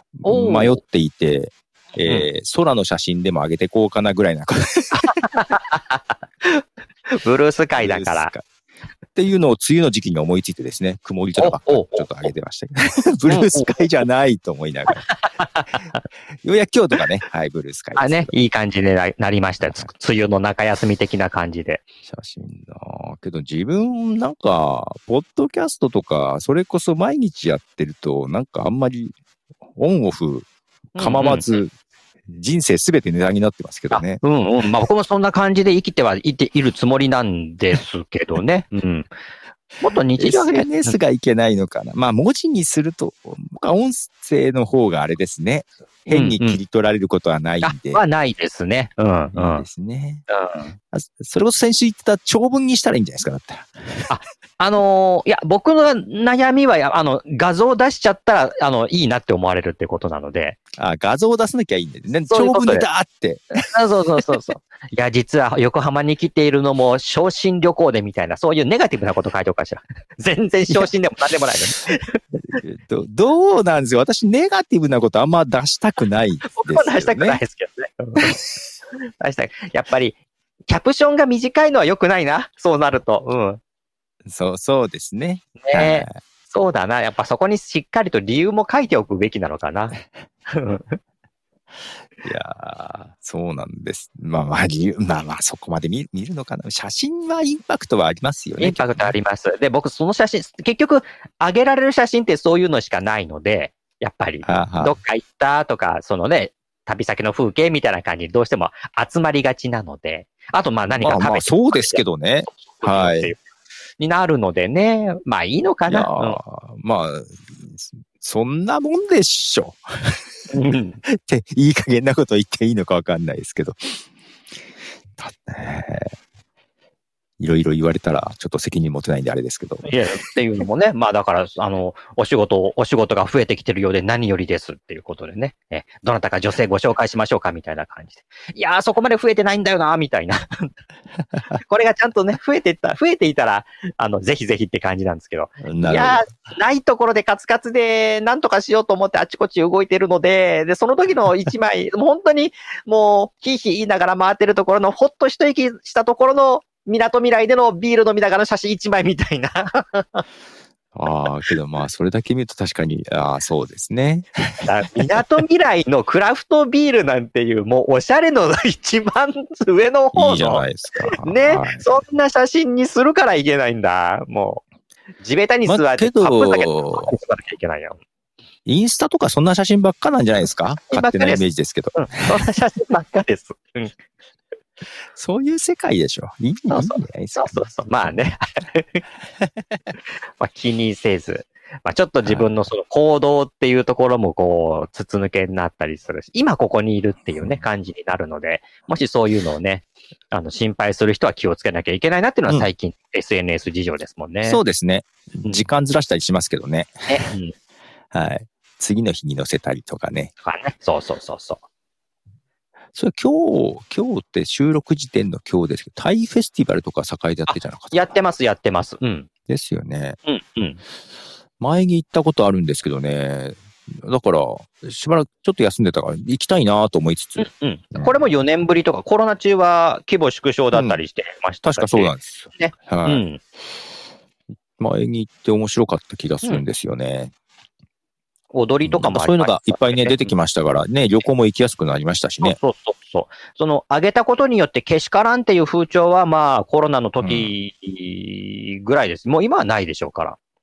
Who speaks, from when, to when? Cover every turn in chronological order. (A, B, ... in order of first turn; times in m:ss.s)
0:00.2-0:05.2 A
0:00.2-0:00.8 B
0:02.0-0:02.3 B
0:05.0-0:08.3 B
0:07.8-0:08.4 A
0:09.2-0:15.0 A
0:11.4-0:12.1 B
0:13.3-0:13.8 B
0:14.9-0:16.0 B
0:16.4-0:18.4 A
0:18.0-0:21.8 B
0:19.6-0:19.9 A
0:22.1-0:29.2 A
0:29.8-0:30.5 A
0:30.9-0:31.5 B
0:31.0-0:31.7 A
0:32.3-0:34.2 A
0:33.9-0:39.1 B
0:39.8-0:41.0 B
0:40.2-0:48.0 A
0:46.1-0:46.6 B
0:47.6-0:49.7 B
0:49.3-0:50.2 A
0:50.3-0:50.7 B
0:50.9-0:54.1 A
0:54.1-1:00.6 B
1:00.8-1:03.5 A
1:02.3-1:02.9 B
1:03.7-1:12.2 B
1:12.3-1:17.4 A
1:16.5-1:18.4 B
1:19.2-1:20.2 B
1:20.7-1:23.6 B
1:24.2-1:26.2 A
1:25.6-1:31.0 B
1:32.2-1:39.1 A
1:38.6-1:53.4 B
1:44.4-1:45.0 A
1:51.0-1:53.3 A
1:54.0-1:56.4 B
1:55.9-2:00.2 A
2:00.5-2:01.0 B
2:01.1-2:04.0 A
2:05.2-2:06.1 A
2:07.4-2:09.9 A
2:09.8-2:20.7 B
2:21.6-2:40.2 B
2:25.6-2:26.2 A
2:40.9-2:45.0 A
2:44.6-2:54.6 B
2:50.1-2:51.9 A
2:55.2-2:58.0 B
2:55.7-2:57.1 A
2:58.7-3:02.4 A
3:00.9-3:01.4 B
3:01.9-3:03.9 B
3:05.1-3:08.2 A
3:06.7-3:09.0 B
3:10.4-3:24.6 B
3:17.4-3:17.6 A
3:24.4-3:27.2 A
3:27.1-3:27.5 B
3:28.1-3:30.3 A
3:30.4-3:31.6 B
3:32.9-3:38.1 A
3:37.5-3:39.3 B
3:39.5-3:40.2 A
3:40.2-3:40.8 B
3:41.6-3:48.2 A
3:47.4-3:53.4 B
3:50.7-3:51.0 A
3:51.6-3:53.2 A
3:54.8-3:57.3 A
3:58.5-4:00.3 B
3:58.8-4:02.6 A
4:02.4-4:10.4 B
4:07.2-4:07.5 A